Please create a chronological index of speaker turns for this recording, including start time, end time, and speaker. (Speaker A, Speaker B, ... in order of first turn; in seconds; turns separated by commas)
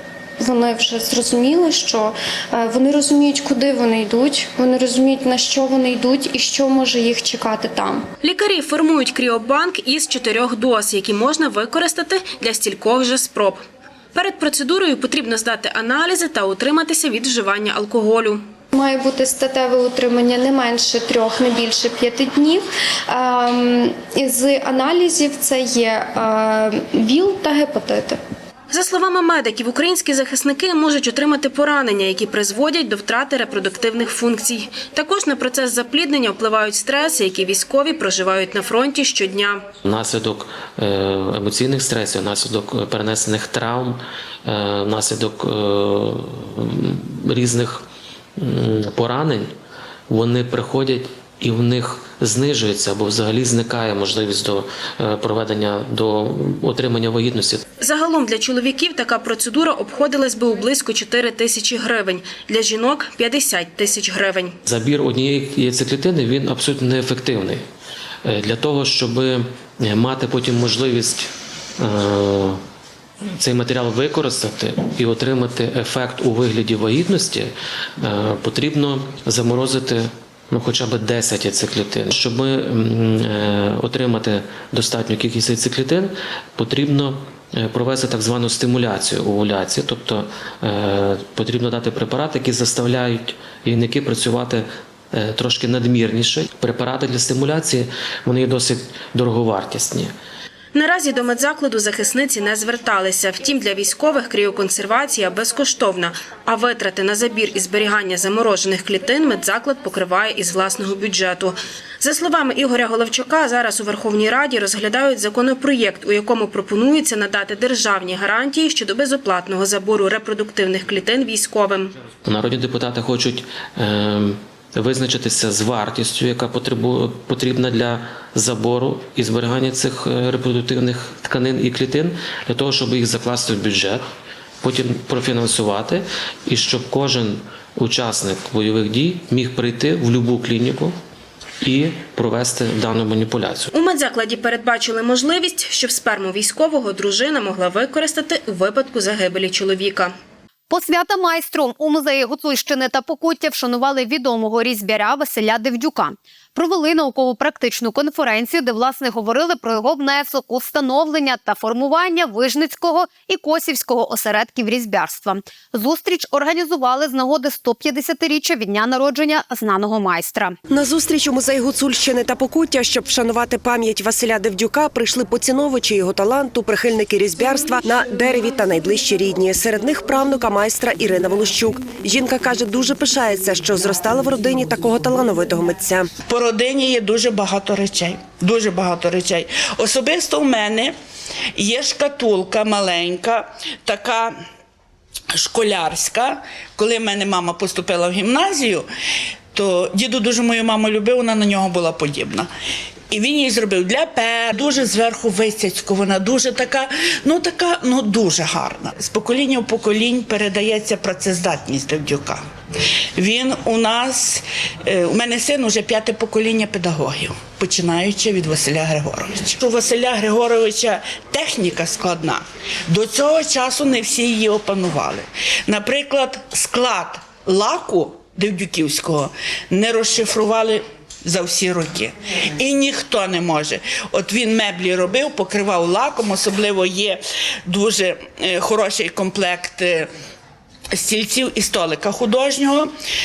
Speaker A: 0.4-8.1, Speaker B: 8.2-18.4, Speaker A: 18.7-28.2, Speaker B: 28.7-39.7, Speaker C: 39.8-47.9, Speaker C: 48.4-49.5, Speaker C: 50.1-57.6, Speaker B: 57.8-64.5, Speaker C: 64.6-67.6, Speaker C: 68.2-72.6, Speaker C: 73.4-100.1, Speaker B: 100.7-121.9, Speaker C: 122.2-134.0, Speaker C: 134.6-140.9, Speaker C: 141.6-143.7, Speaker B: 143.7-150.1, Speaker D: 150.7-170.6, Speaker E: 170.7-186.1, Speaker F: 186.3-190.9, Speaker F: 191.6-194.3, Speaker F: 195.3-198.9, Speaker F: 199.5-202.5, Speaker F: 203.1-212.4, Speaker F: 213.2-240.1, Speaker F: 240.9-242.9